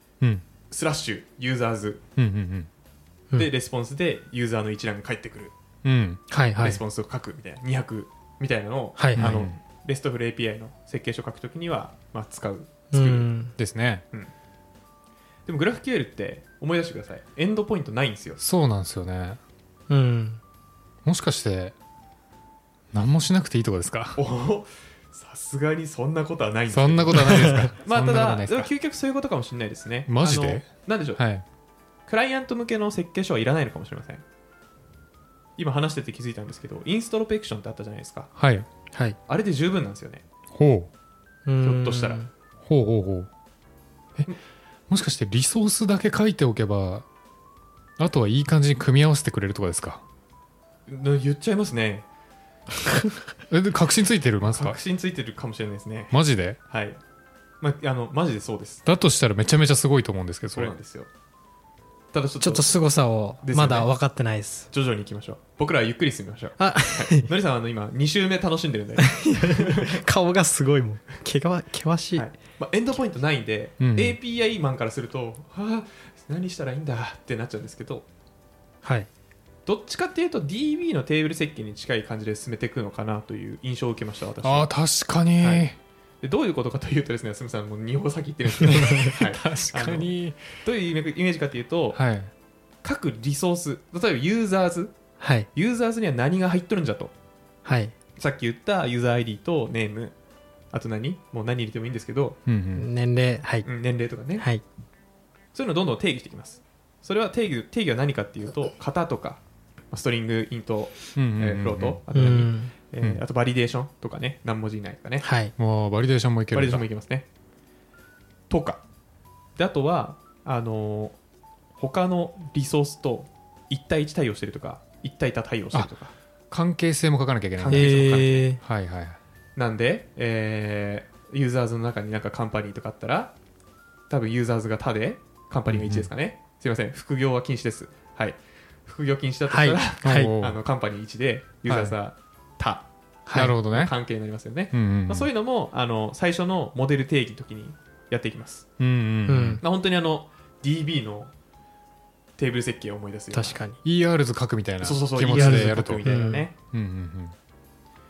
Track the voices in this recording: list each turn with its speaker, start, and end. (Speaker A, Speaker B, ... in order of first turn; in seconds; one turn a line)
Speaker A: 0.7-2.0
Speaker B: 2.2-2.7
Speaker A: 3.4-5.5
Speaker B: 5.8-6.2
Speaker C: 6.3-6.8
Speaker A: 6.6-13.3
Speaker C: 9.0-9.3
Speaker B: 9.2-9.6
Speaker C: 12.9-13.6
Speaker B: 13.6-14.1
Speaker A: 15.5-18.4
Speaker B: 18.4-19.4
Speaker C: 19.9-20.4
Speaker B: 21.1-21.8
Speaker B: 22.9-24.2
Speaker A: 24.2-31.2
Speaker B: 26.7-28.7
Speaker C: 27.2-27.7
Speaker B: 30.1-31.4
Speaker A: 32.1-34.2
Speaker A: 35.6-38.3
Speaker B: 38.4-38.7
Speaker A: 39.3-40.2
Speaker B: 40.5-40.9
Speaker C: 41.5-42.3
Speaker A: 41.6-42.2
Speaker B: 42.6-43.3
Speaker B: 44.9-47.1
Speaker B: 48.0-50.0
Speaker A: 50.9-52.1
Speaker B: 53.5-54.8
Speaker A: 54.5-57.0
Speaker B: 56.1-56.6
Speaker A: 57.6-58.9
Speaker B: 58.9-60.8
Speaker A: 60.5-61.1
Speaker A: 62.1-62.8
Speaker C: 62.4-64.7
Speaker A: 63.4-63.9
Speaker A: 64.7-70.0
Speaker C: 66.6-67.3
Speaker C: 69.0-72.3
Speaker A: 72.1-78.1
Speaker B: 73.8-74.2
Speaker C: 78.8-79.1
Speaker A: 79.7-84.7
Speaker B: 84.4-85.8
Speaker A: 85.4-85.7
Speaker A: 86.2-92.0
Speaker C: 88.6-89.2
Speaker B: 88.8-90.4
Speaker B: 91.9-92.3
Speaker A: 92.8-95.0
Speaker C: 95.2-95.5
Speaker A: 95.5-97.1
Speaker C: 97.7-97.9
Speaker A: 98.2-100.2
Speaker A: 100.7-102.4
Speaker B: 102.5-102.9
Speaker C: 102.8-103.7
Speaker A: 103.7-104.5
Speaker C: 104.4-104.6
Speaker A: 105.5-115.3
Speaker B: 111.2-112.0
Speaker C: 112.1-112.7
Speaker C: 115.2-115.5
Speaker B: 115.6-116.8
Speaker A: 116.5-117.3
Speaker A: 118.5-118.8
Speaker A: 119.6-121.2
Speaker A: 121.8-126.1
Speaker B: 126.5-129.2
Speaker A: 127.6-128.5
Speaker C: 127.7-128.6
Speaker A: 129.6-133.3
Speaker A: 134.1-148.7
Speaker B: 135.7-136.1
Speaker C: 139.5-140.3
Speaker B: 140.0-140.6
Speaker B: 141.7-142.0
Speaker C: 143.3-143.6
Speaker B: 143.3-143.9
Speaker B: 144.7-145.3
Speaker B: 148.8-149.6
Speaker C: 149.3-149.6
Speaker A: 149.6-151.3
Speaker A: 152.4-153.6
Speaker C: 153.3-153.8
Speaker B: 153.8-156.1
Speaker A: 154.8-156.5
Speaker C: 155.3-156.5
Speaker B: 156.7-157.4